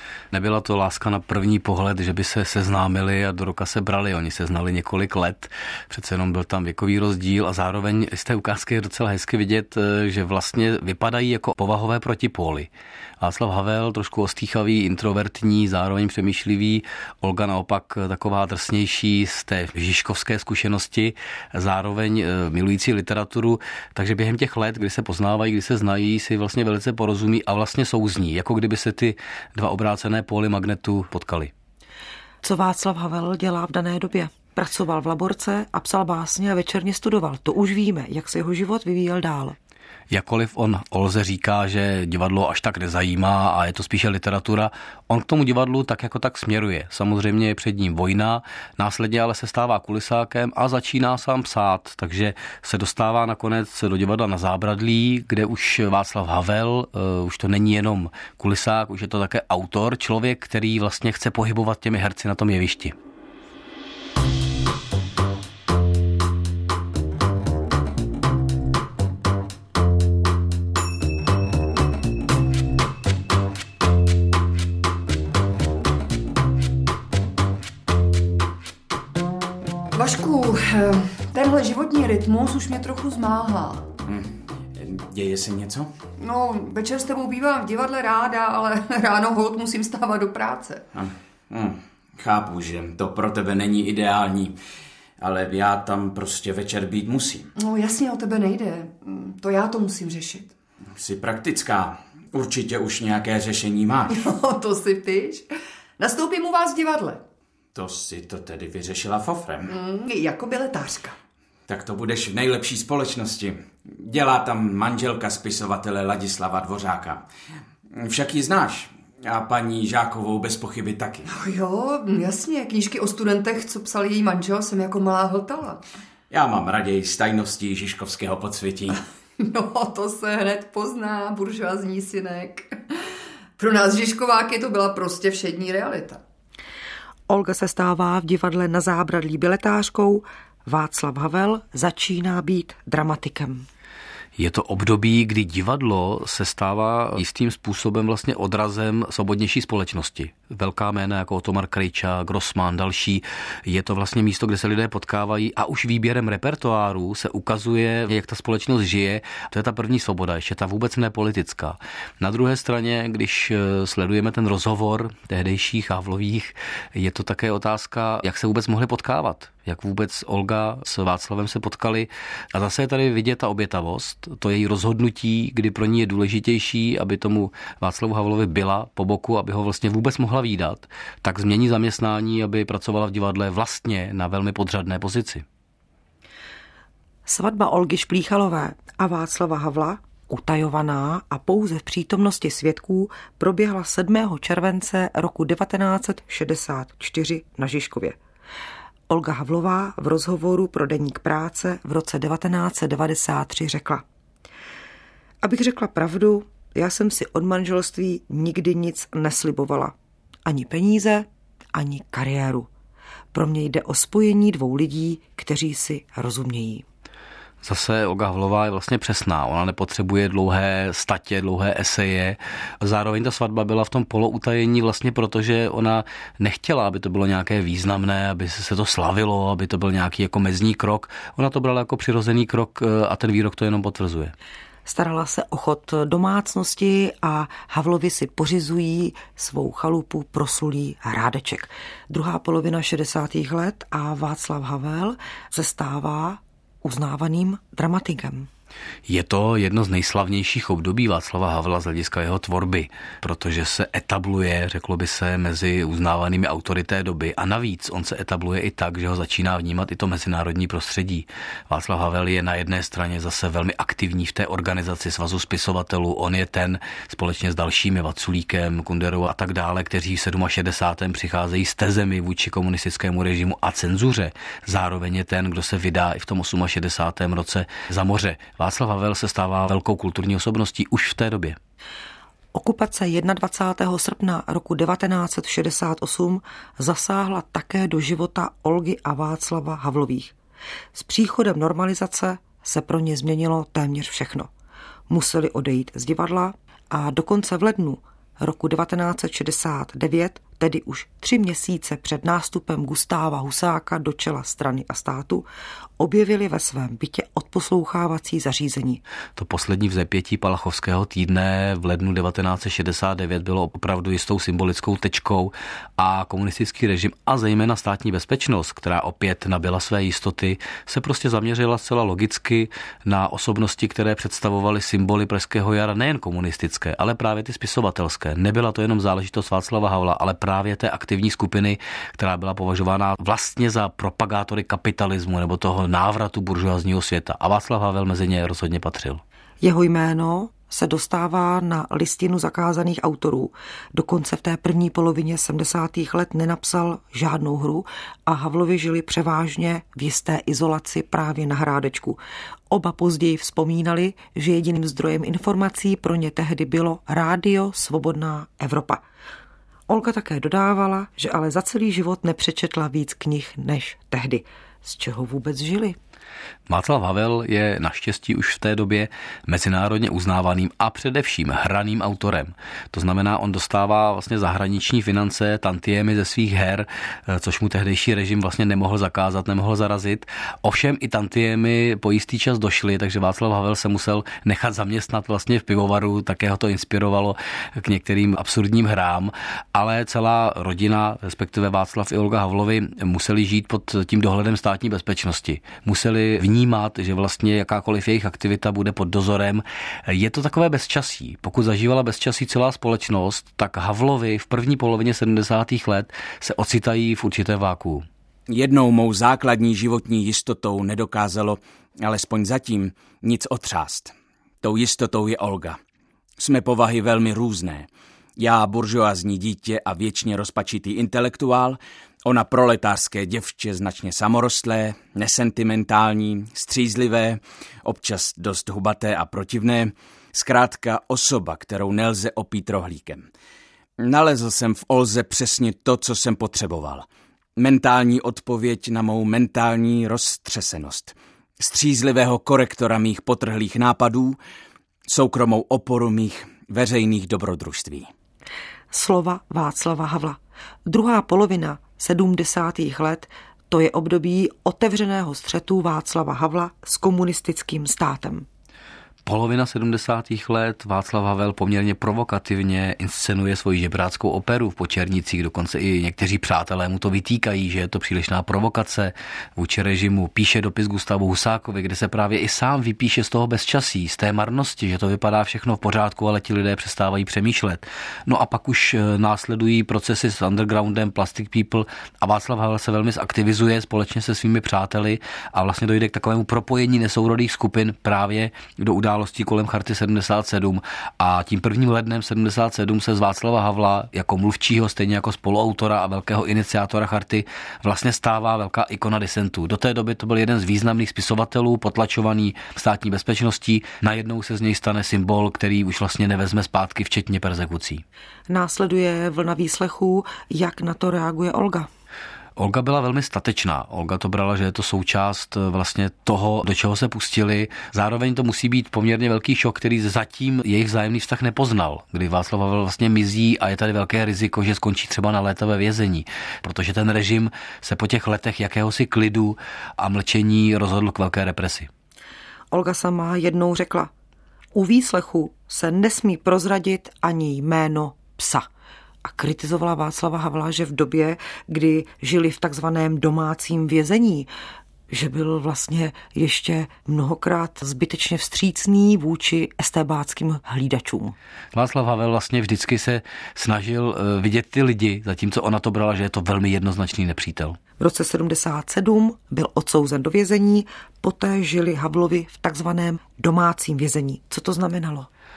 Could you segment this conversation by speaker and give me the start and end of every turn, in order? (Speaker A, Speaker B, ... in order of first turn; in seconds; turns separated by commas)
Speaker A: 0.3-31.5, Speaker B: 32.4-39.6, Speaker A: 40.1-62.9, Speaker C: 79.9-83.9, Speaker D: 84.0-85.9, Speaker C: 86.2-90.8, Speaker D: 90.9-94.5, Speaker D: 95.2-97.5, Speaker C: 97.6-100.5, Speaker D: 101.0-104.2, Speaker C: 104.1-105.5, Speaker C: 106.0-107.2, Speaker D: 107.7-109.7, Speaker C: 109.7-111.2, Speaker D: 111.7-117.2, Speaker D: 117.9-121.3, Speaker C: 121.3-125.8, Speaker D: 126.3-129.0, Speaker C: 129.4-132.8, Speaker C: 133.6-136.2, Speaker B: 137.3-143.7, Speaker A: 144.4-185.4, Speaker B: 187.2-198.2, Speaker B: 199.1-204.0, Speaker B: 205.4-209.9, Speaker B: 210.4-212.7, Speaker B: 213.3-216.8, Speaker A: 217.6-234.3, Speaker B: 234.8-248.5, Speaker A: 249.1-281.6, Speaker B: 282.5-290.3, Speaker B: 290.9-294.5, Speaker B: 295.1-305.4, Speaker B: 306.0-309.0, Speaker A: 309.4-339.2, Speaker B: 339.6-359.0, Speaker B: 359.9-366.0, Speaker A: 366.7-408.0, Speaker D: 408.5-415.8, Speaker D: 416.4-433.2, Speaker D: 434.0-444.4, Speaker D: 445.1-448.1, Speaker B: 448.9-458.5, Speaker A: 459.2-508.0, Speaker B: 508.5-511.9, Speaker A: 512.6-531.9, Speaker B: 532.7-534.1, Speaker B: 534.7-538.7, Speaker B: 539.2-544.5, Speaker B: 545.1-551.3, Speaker A: 551.7-557.8, Speaker B: 558.0-565.3